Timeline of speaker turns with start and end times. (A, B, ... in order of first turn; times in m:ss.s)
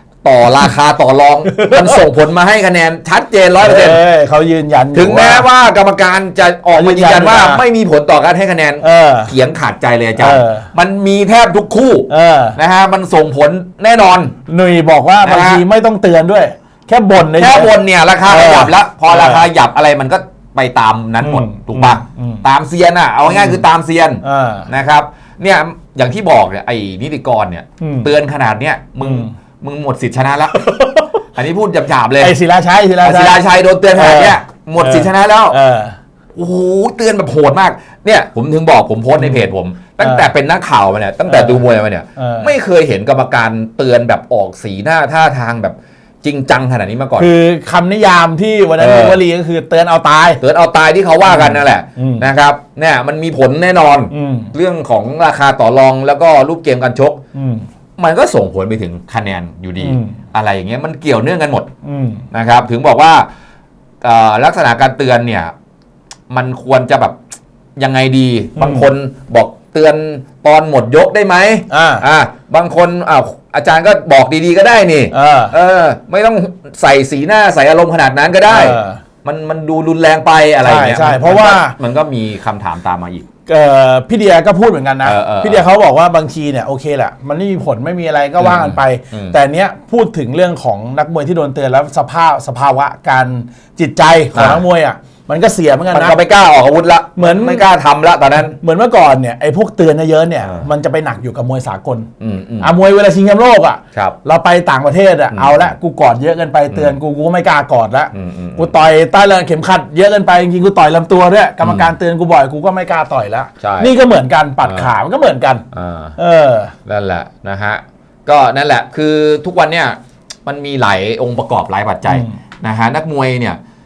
0:00.2-0:04.0 A
0:01.5-0:02.0 B
0:03.6-0:05.5 B
0:04.9-0:14.3 A
0:06.7-0:07.6 B
0:08.8-0:09.3 B
0:10.2-0:10.7 B
0:12.1-0:12.6 B
0:14.5-0:17.7 B
0:15.2-0:15.6 A
0:17.2-0:30.6 A
0:18.2-0:19.5 B
0:21.2-0:22.4 B
0:23.3-0:23.6 B
0:24.2-0:24.7 B
0:27.8-0:28.1 B
0:29.0-0:29.3 B
0:30.5-0:31.2 B
0:31.3-0:32.4 A
0:32.2-0:33.4 B
0:33.0-0:35.6 A
0:34.0-0:36.0 B
0:36.4-0:47.3 A
0:39.2-0:39.4 B
0:40.0-0:40.3 B
0:41.3-0:41.6 B
0:42.2-0:42.5 B
0:47.2-0:50.4 B
0:48.8-0:49.2 A
0:50.4-0:57.2 A
0:51.3-0:52.3 B
0:54.1-0:54.5 B
0:57.4-0:57.7 B
0:58.0-1:01.7 A
0:59.8-1:00.2 B
1:01.8-1:02.3 B
1:02.3-1:03.3 A
1:04.0-1:05.5 A
1:06.3-1:07.2 A
1:07.8-1:23.3 A
1:08.6-1:08.9 B
1:11.7-1:12.1 B
1:15.1-1:15.6 B
1:18.5-1:19.0 B
1:20.6-1:21.8 B
1:23.5-1:36.2 B
1:25.0-1:25.7 A
1:28.4-1:29.4 A
1:34.3-1:34.6 A
1:35.9-1:38.6 A
1:37.2-1:37.7 B
1:38.5-1:42.1 B
1:42.2-1:42.8 A
1:42.6-1:55.6 B
1:45.3-1:45.7 A
1:46.7-1:47.0 A
1:48.1-1:48.8 A
1:51.6-1:51.9 A
1:53.6-1:53.9 A
1:54.6-1:54.9 A
1:55.7-1:56.2 A
1:56.2-1:56.7 B
1:56.9-2:03.6 A
2:02.1-2:02.4 B